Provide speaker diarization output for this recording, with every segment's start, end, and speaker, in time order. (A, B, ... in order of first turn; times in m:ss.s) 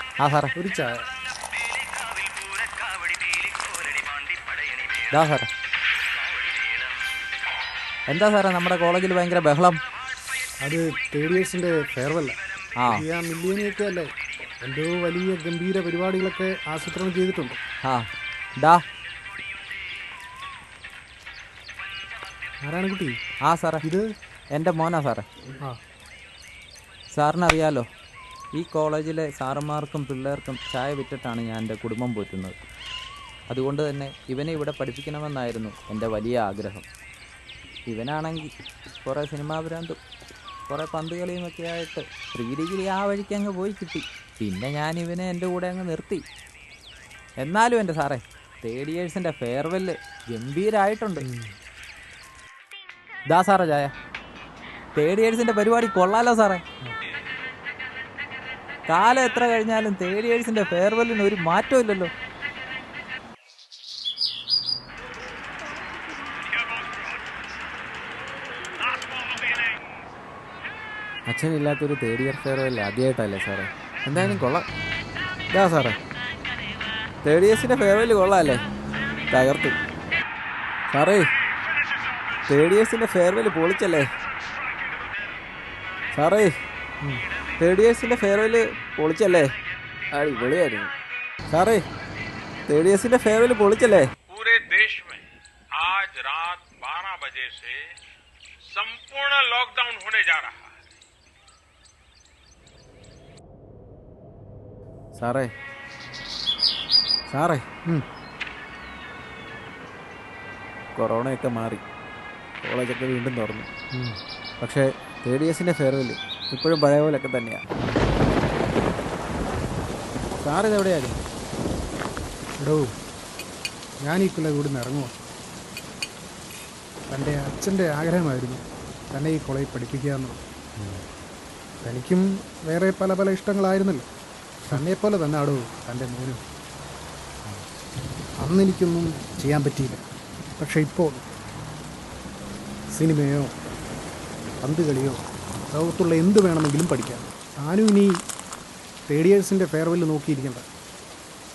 0:00.2-0:00.5 A
0:00.6-0:00.9 B
0:05.1-0:05.5 A
0:08.1-0:09.8 A
0:10.6-0:14.1 B
0:12.8-0:13.0 A
0:14.6-0:17.6 B
0:22.6-0:23.2 B
0:23.4-0:23.8 A
0:24.5-0:25.2 A
0:27.1-0:27.8 A
0:28.5-0:32.5 A
0:33.5-0:36.8 A
0:37.9-0:38.5 A
0:39.0-0:40.0 A
0:40.7-0:46.2 A
0:47.4-0:51.2 A
0:51.2-0:51.5 B
0:53.3-0:53.9 A
0:54.9-0:56.6 A
0:58.9-1:02.1 A
1:08.9-1:09.5 C
1:11.3-1:14.6 D
1:14.2-1:14.4 B
1:15.5-1:16.0 D
1:17.2-1:18.6 D
1:19.3-1:19.8 D
1:20.9-1:21.3 D
1:22.5-1:24.1 D
1:26.1-1:26.5 D
1:27.6-1:29.5 D
1:30.1-1:30.9 D
1:31.5-1:31.8 D
1:32.7-1:34.1 D
1:34.3-1:35.2 C
1:35.7-1:37.9 C
1:38.7-1:40.7 C
1:45.2-1:45.5 D
1:47.3-1:47.6 D
1:51.0-1:51.8 D
1:52.6-1:53.7 D
1:53.9-1:54.2 B
1:54.6-1:57.6 D
1:57.8-1:58.1 B
2:00.3-2:01.2 D
2:02.6-2:02.9 B
2:04.0-2:05.1 B
2:07.1-2:10.4 B
2:11.8-2:14.0 B
2:14.7-2:16.4 B
2:18.4-2:20.0 B
2:20.6-2:21.2 B
2:22.9-2:23.5 B
2:24.6-2:25.2 B
2:25.7-2:28.1 B
2:29.1-2:30.6 B